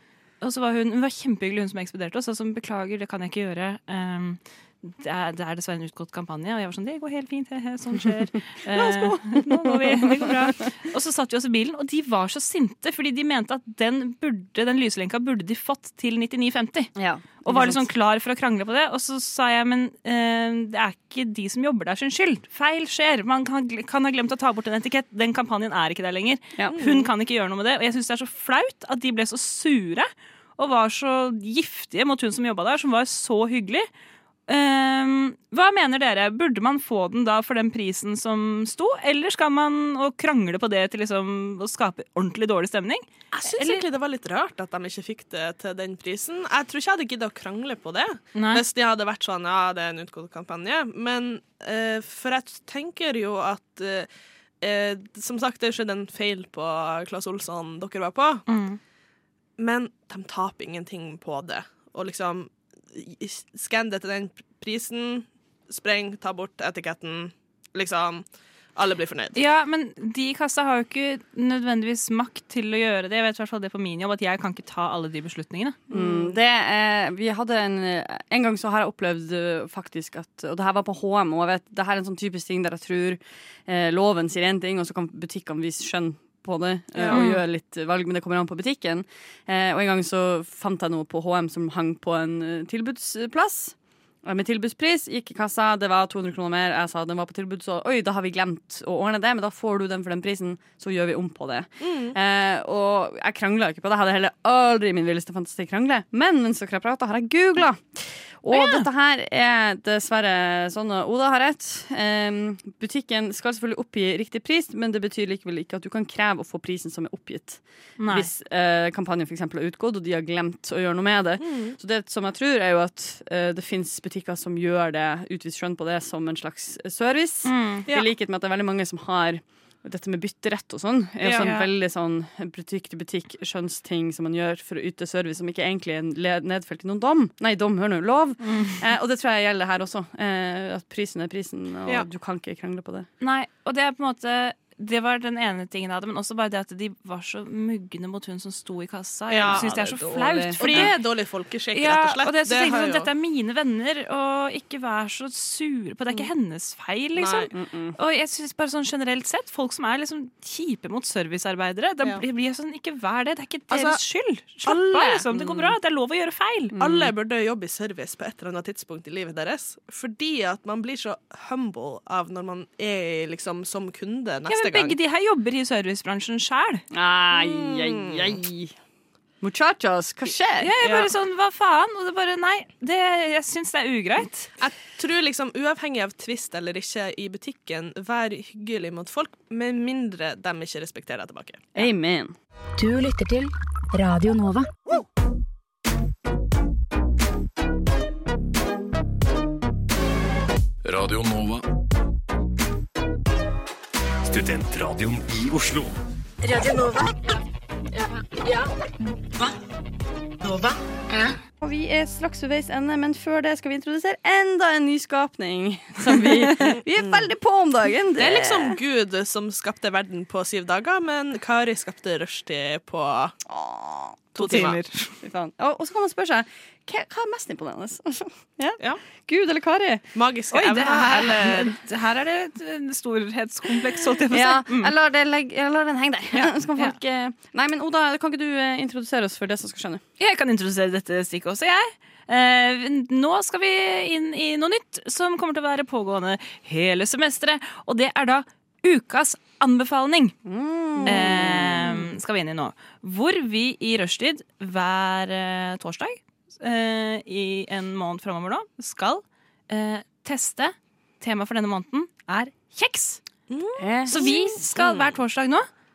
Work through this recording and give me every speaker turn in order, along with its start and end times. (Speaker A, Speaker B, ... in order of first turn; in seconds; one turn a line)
Speaker A: 0.4-16.9
Speaker B: 8.7-10.5
Speaker B: 16.9-17.8
Speaker A: 17.4-33.9
Speaker C: 26.7-27.1
Speaker A: 34.5-43.8
Speaker C: 43.3-54.1
Speaker A: 48.3-48.6
Speaker C: 54.6-58.5
Speaker A: 58.5-58.8
Speaker C: 59.6-69.4
Speaker A: 69.3-75.8
Speaker C: 75.9-76.3
Speaker B: 75.9-143.1
Speaker C: 86.9-87.2
Speaker A: 87.1-87.4
Speaker C: 101.8-102.2
Speaker A: 108.5-108.9
Speaker A: 118.0-118.3
Speaker C: 121.4-121.8
Speaker A: 127.4-127.9
Speaker C: 131.2-131.5
Speaker A: 131.2-131.7
Speaker A: 138.4-138.8
Speaker A: 143.2-151.0
Speaker C: 149.3-149.7
Speaker B: 149.4-150.9
Speaker C: 150.6-153.1
Speaker A: 151.7-166.8
Speaker C: 157.2-157.5
Speaker B: 157.5-157.9
Speaker C: 163.7-164.0
Speaker C: 164.6-165.7
Speaker C: 166.8-175.0
Speaker B: 166.8-167.1
Speaker A: 174.5-176.8
Speaker B: 176.9-178.7
Speaker C: 177.3-178.4
Speaker B: 179.4-181.1
Speaker A: 180.6-184.5
Speaker C: 184.6-191.7
Speaker B: 191.7-192.3
Speaker D: 192.8-194.7
Speaker E: 200.8-201.6
Speaker E: 204.2-205.9
Speaker D: 206.4-207.3
Speaker D: 208.0-208.7
Speaker D: 210.4-211.2
Speaker B: 211.6-218.8
Speaker C: 217.0-217.3
Speaker C: 218.2-223.3
Speaker B: 223.5-224.3
Speaker C: 224.3-224.8
Speaker A: 224.4-225.1
Speaker B: 225.2-230.1
Speaker C: 230.1-231.7
Speaker A: 230.5-234.9
Speaker B: 234.3-240.0
Speaker A: 236.3-236.9
Speaker A: 240.2-250.3
Speaker B: 250.4-252.1
Speaker A: 251.0-263.2
Speaker C: 263.5-265.1
Speaker B: 263.8-264.5
Speaker A: 264.1-265.7